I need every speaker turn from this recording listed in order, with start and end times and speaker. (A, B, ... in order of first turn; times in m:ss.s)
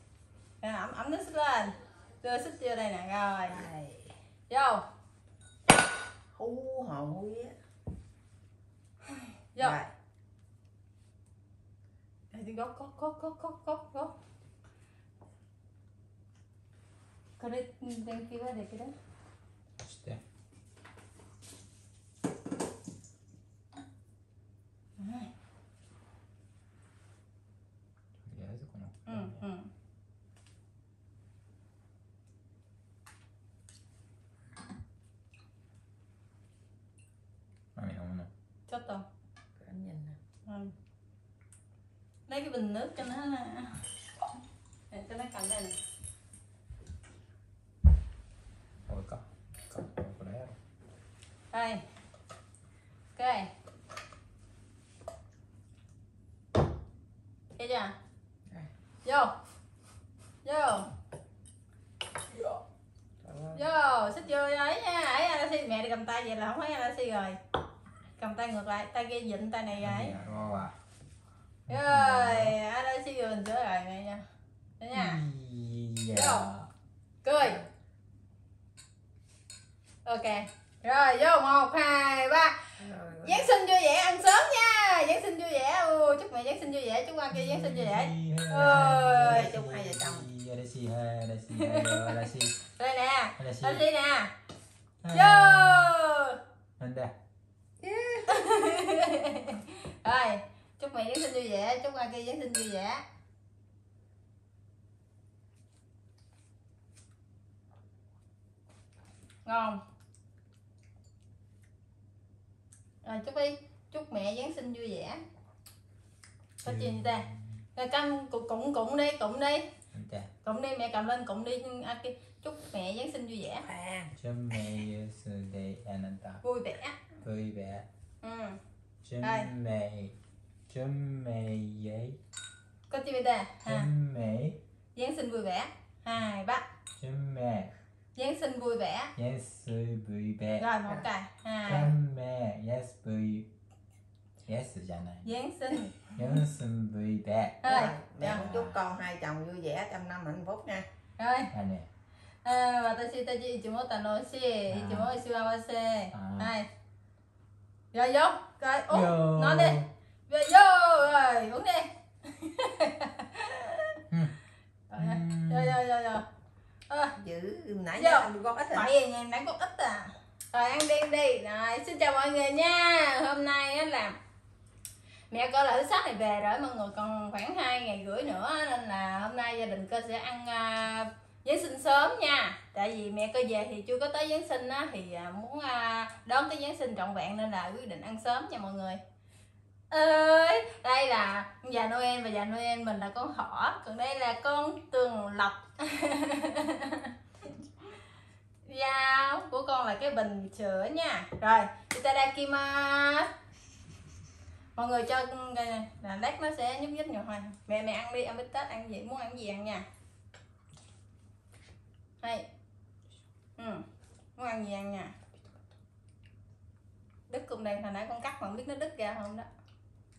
0:00.6-0:03.6 A
0:03.5-0:04.2 B
0:04.5-0:04.8 A
0:06.4-0:07.6 B
0:09.1-0:09.8 A
0:09.6-0:09.9 B
0:12.3-0:14.1 A
0:17.4-0:18.9 A
0:19.8-0:20.2 C
0:25.0-0:25.3 A
0:28.2-0:29.4 C
0:29.1-0:29.7 A
0:37.8-0:38.3 C
0:38.7-0:39.0 A
0:39.6-0:40.2 B
0:40.5-0:40.7 A
0:42.3-0:43.8 A
0:44.9-0:45.8 A
0:48.9-0:50.6 C
0:51.5-0:51.8 A
0:53.2-0:53.5 A
0:57.6-0:57.9 A
0:59.0-0:59.3 A
1:00.4-1:00.9 A
1:03.2-1:03.6 B
1:03.5-1:07.4 A
1:08.2-1:10.2 A
1:09.8-1:10.7 C
1:11.7-1:12.6 C
1:11.7-1:14.2 A
1:14.8-1:15.2 A
1:14.9-1:16.7 C
1:16.1-1:16.5 A
1:17.2-1:17.6 A
1:20.0-1:22.6 A
1:22.8-1:23.5 B
1:23.2-1:29.5 A
1:27.3-1:32.6 C
1:29.2-1:30.3 B
1:31.5-1:34.3 A
1:33.4-1:33.8 C
1:35.0-1:35.9 C
1:35.1-1:36.4 A
1:36.8-1:37.1 C
1:37.8-1:38.7 B
1:38.3-1:43.0 A
1:49.5-1:49.8 A
1:53.0-1:55.2 A
1:56.6-1:59.7 A
1:56.6-1:57.6 C
1:59.9-2:00.3 C
2:00.4-2:03.7 A
2:03.6-2:04.1 B
2:04.2-2:06.4 C
2:06.4-2:07.0 A
2:07.2-2:07.9 C
2:08.2-2:08.6 A
2:09.0-2:10.2 C
2:09.2-2:09.5 A
2:10.7-2:12.2 C
2:12.9-2:13.9 A
2:13.6-2:14.6 C
2:15.0-2:16.6 A
2:17.0-2:17.7 C
2:18.2-2:19.1 A
2:19.2-2:20.7 C
2:20.6-2:21.9 A
2:21.7-2:23.5 C
2:24.4-2:25.3 C
2:25.2-2:26.2 A
2:26.1-2:27.6 C
2:27.6-2:28.4 A
2:27.7-2:30.9 B
2:28.2-2:28.8 C
2:31.2-2:31.5 A
2:31.5-2:31.9 C
2:32.4-2:36.7 A
2:34.7-2:35.2 C
2:36.1-2:36.5 C
2:37.9-2:44.0 A
2:38.9-2:39.9 C
2:44.1-2:44.4 C
2:44.9-2:46.3 A
2:45.0-2:45.8 C
2:46.9-2:47.2 A
2:47.2-2:48.9 B
2:48.0-2:54.2 A
2:55.3-3:09.0 A
3:09.9-3:17.2 A
3:18.7-3:23.3 A
3:24.8-3:29.8 A
3:32.2-3:32.5 A
3:33.6-3:33.9 A
3:34.4-3:35.2 A
3:37.3-3:39.5 A